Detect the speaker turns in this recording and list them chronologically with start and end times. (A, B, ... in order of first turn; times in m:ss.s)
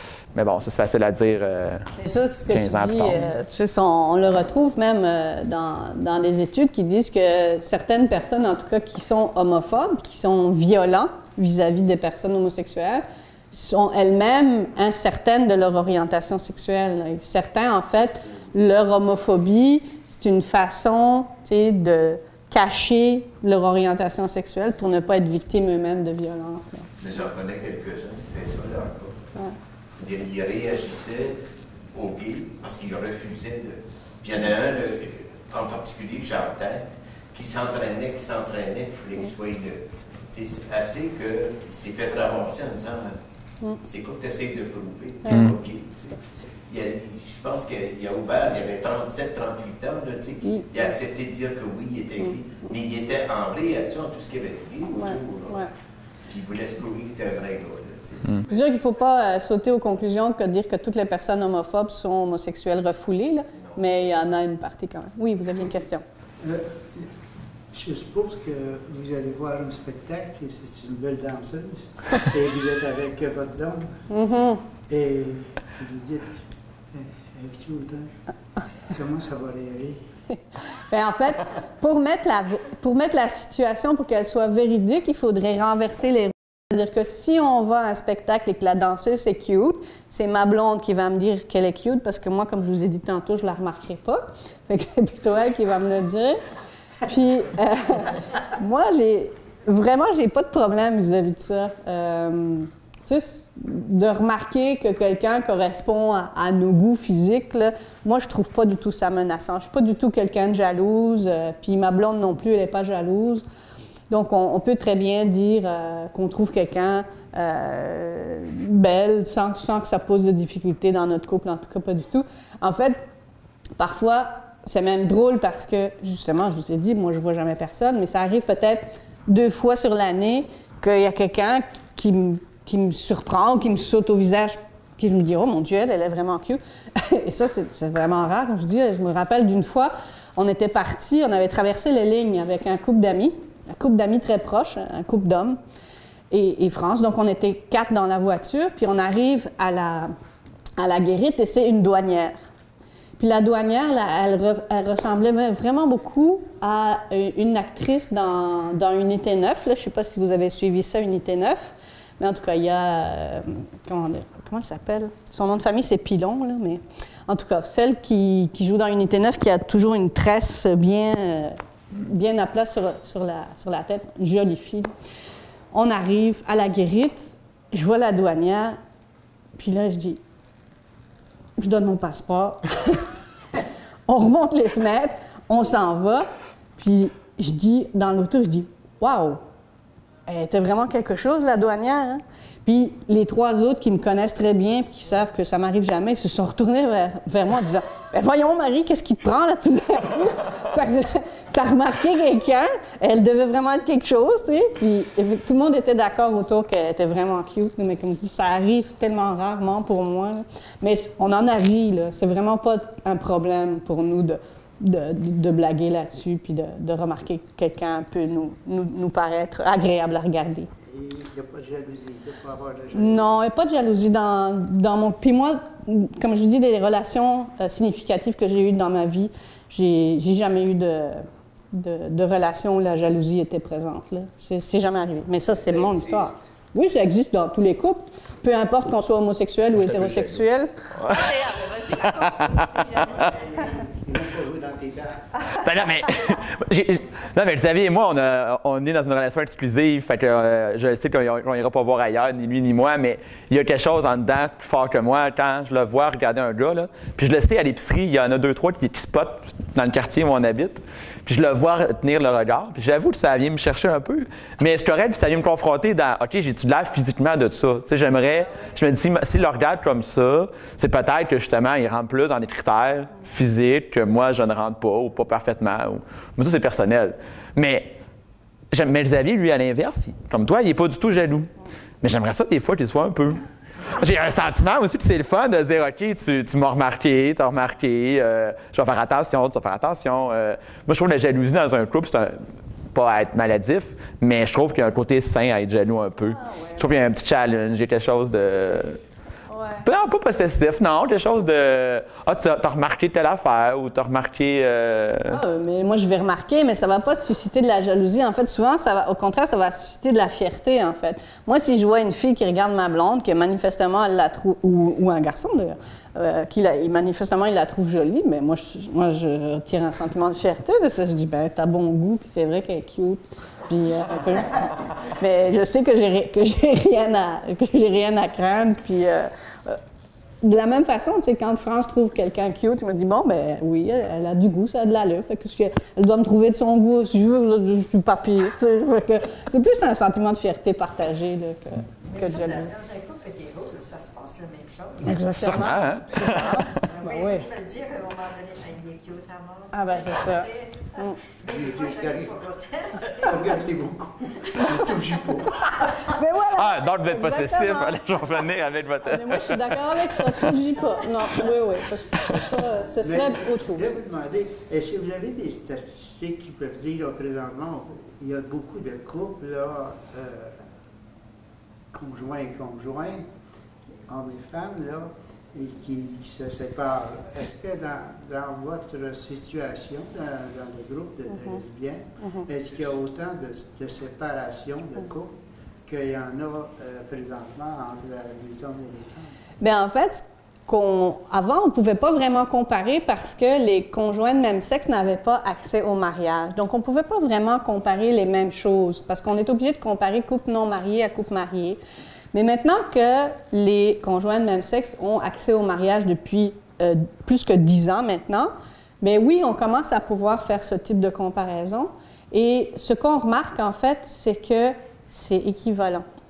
0:00.3-0:01.9 A
0:02.0-0:26.9 B
0:02.5-0:03.3 A
0:27.0-0:29.3 C
0:30.0-0:43.2 C
0:43.8-0:55.7 C
0:50.4-0:50.7 B
0:54.9-0:55.7 B
0:56.3-0:58.7 C
0:58.4-1:06.0 B
1:03.6-1:04.2 C
1:06.4-1:07.1 D
1:07.7-1:14.1 D
1:14.1-1:14.6 B
1:14.9-1:16.4 D
1:16.9-1:18.1 D
1:18.9-1:20.0 D
1:20.9-1:36.4 B
1:37.0-1:53.4 B
1:54.1-2:03.0 B
2:03.8-2:25.6 B
2:26.3-2:30.1 B
2:30.8-2:32.4 B
2:33.2-2:54.9 B
2:55.7-2:58.8 B
2:59.6-3:00.2 B
3:01.6-3:03.1 B
3:04.1-3:09.4 B
3:10.3-3:40.7 B
3:40.9-3:43.4 D
3:42.9-4:02.4 B
4:01.0-4:01.3 A
4:01.1-4:03.3 E
4:02.0-4:02.5 A
4:03.1-4:05.6 D
4:05.6-4:38.0 A
4:38.7-4:41.5 A
4:42.0-4:52.4 A
4:52.9-4:59.0 A
4:59.5-4:59.8 B
4:59.8-5:05.4 A
5:05.3-5:29.8 B
5:30.4-5:42.7 B
5:42.0-5:53.7 E
5:45.0-5:47.4 B
5:45.4-5:46.6 A
5:49.7-5:51.2 B
5:51.5-5:52.4 D
5:53.1-5:55.6 D
5:54.6-5:55.9 E
5:55.8-5:58.2 B
5:56.5-6:00.6 A
5:59.0-6:03.9 B
6:03.0-6:10.6 D
6:11.9-6:13.3 D
6:14.1-6:25.4 D
6:21.4-6:21.6 B
6:25.9-6:29.4 D
6:29.6-6:41.8 B
6:42.3-6:56.1 B